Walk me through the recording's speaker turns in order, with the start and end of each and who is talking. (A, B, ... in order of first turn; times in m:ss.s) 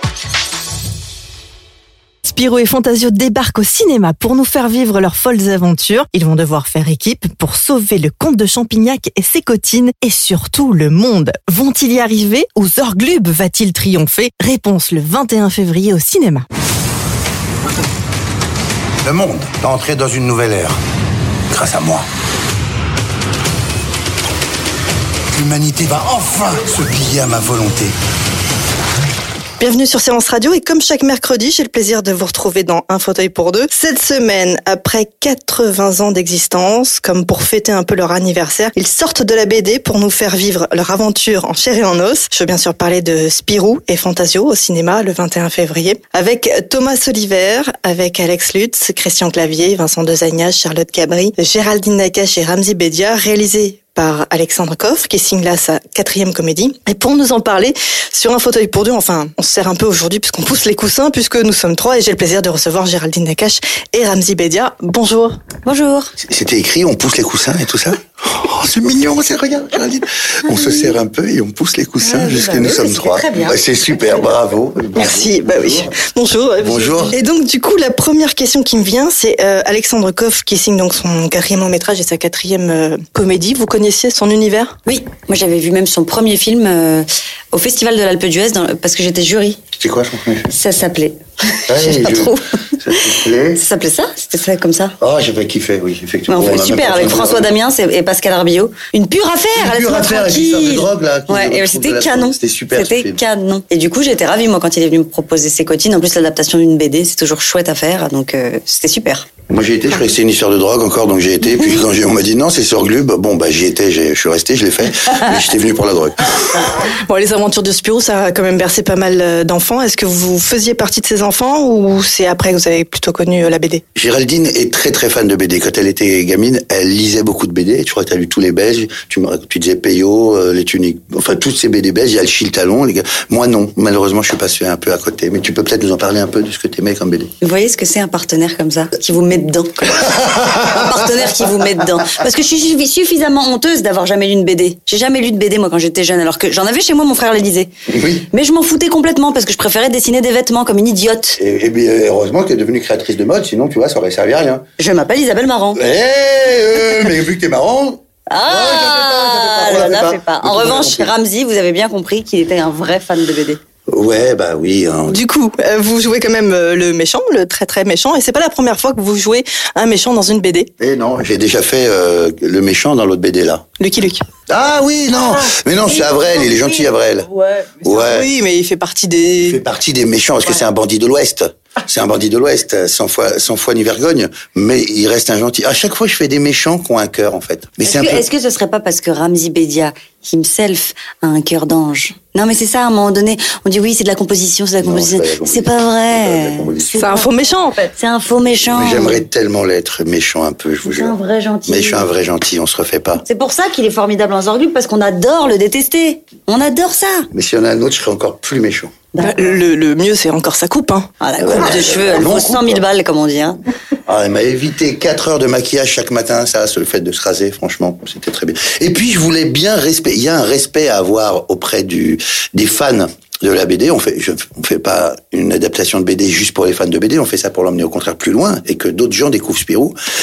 0:02.2-0:16.4 A
0:19.0-0:20.8 B
0:21.5-0:22.0 B
0:25.3-0:27.9 B
0:29.6-1:05.4 A
1:05.6-1:06.1 C
1:06.2-1:15.9 B
1:12.0-1:13.6 C
1:14.9-1:24.7 A
1:16.6-1:17.1 B
1:24.8-1:29.6 C
1:29.8-1:30.5 B
1:30.5-1:32.4 C
1:31.7-1:33.6 B
1:33.5-1:34.9 C
1:35.0-1:37.5 B
1:36.3-1:49.3 C
1:39.6-1:43.2 B
1:49.5-1:56.4 B
1:57.0-2:03.8 A
2:03.9-2:17.3 B
2:17.4-2:27.7 C
2:27.9-2:28.2 B
2:28.3-2:31.4 C
2:31.4-2:34.6 B
2:34.8-2:35.8 C
2:35.7-2:41.1 B
2:38.3-2:43.6 C
2:43.9-2:45.2 B
2:45.1-2:50.7 A
2:50.8-2:53.6 B
2:53.8-2:54.2 A
2:54.5-2:58.3 B
2:57.8-2:59.6 A
2:59.4-3:08.2 B
3:07.8-3:19.2 C
3:14.8-3:17.0 B
3:17.0-3:17.8 A
3:18.7-3:21.1 B
3:20.8-3:22.1 C
3:21.6-3:23.2 B
3:23.2-3:27.3 C
3:27.3-3:28.9 B
3:29.1-3:29.6 C
3:29.2-3:31.1 A
3:31.2-3:33.6 C
3:31.4-3:32.8 B
3:34.0-3:50.0 B